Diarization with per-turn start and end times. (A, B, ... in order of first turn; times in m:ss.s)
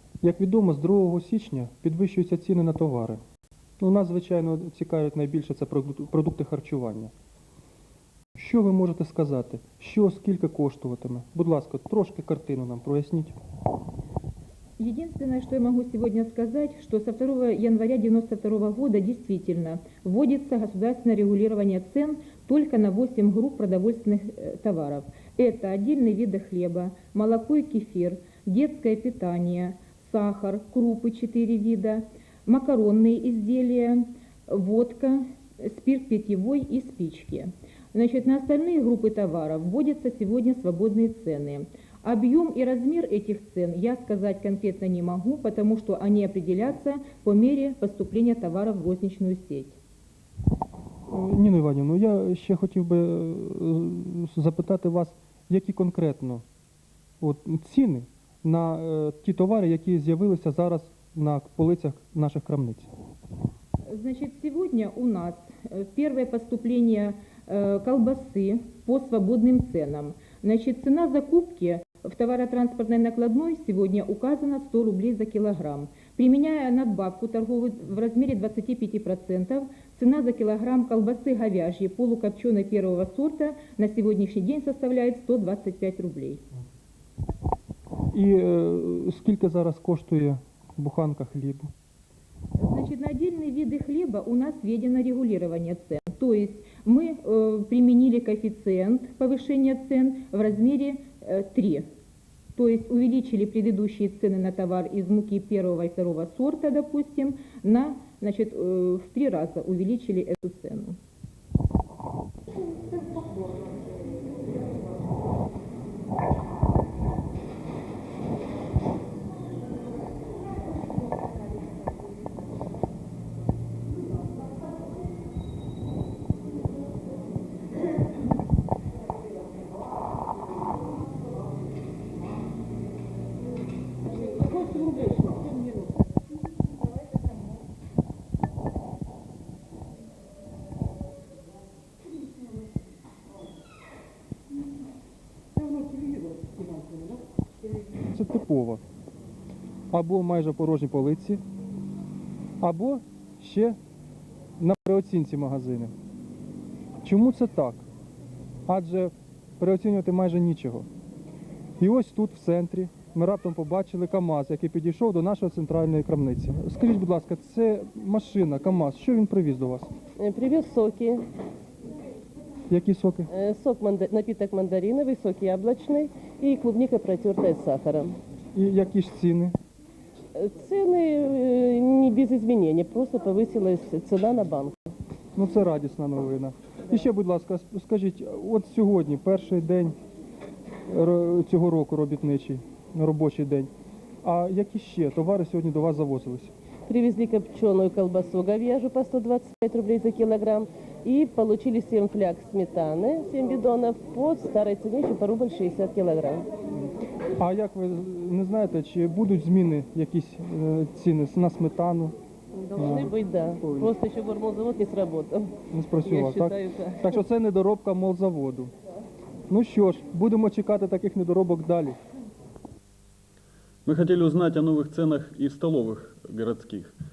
0:00.2-0:03.2 A
0:03.8-0:07.1 A
0:08.4-0:13.3 A
0:14.8-0:49.8 B
0:51.1-0:56.4 A
0:57.2-1:02.9 A
1:03.9-1:26.4 B
1:28.1-1:31.7 A
1:32.6-1:41.8 B
1:42.6-1:51.0 B
2:14.8-2:15.3 C
2:28.1-2:28.8 A
2:29.9-2:31.4 A
2:32.6-2:33.8 A
2:34.6-2:35.9 A
2:37.0-2:37.8 A
2:38.7-2:40.9 A
2:41.8-2:49.9 A
2:50.2-2:51.2 C
2:52.7-2:53.3 A
2:53.3-2:58.2 C
2:58.5-2:59.5 A
3:00.3-3:04.9 C
3:05.3-3:10.0 A
3:10.9-3:13.7 A
3:14.2-3:16.5 A
3:16.8-3:26.5 C
3:27.4-3:32.1 A
3:32.6-3:35.5 C
3:32.8-3:33.9 A
3:35.7-3:38.7 A
3:36.0-3:37.2 C
3:39.5-3:42.0 A
3:43.8-3:46.9 D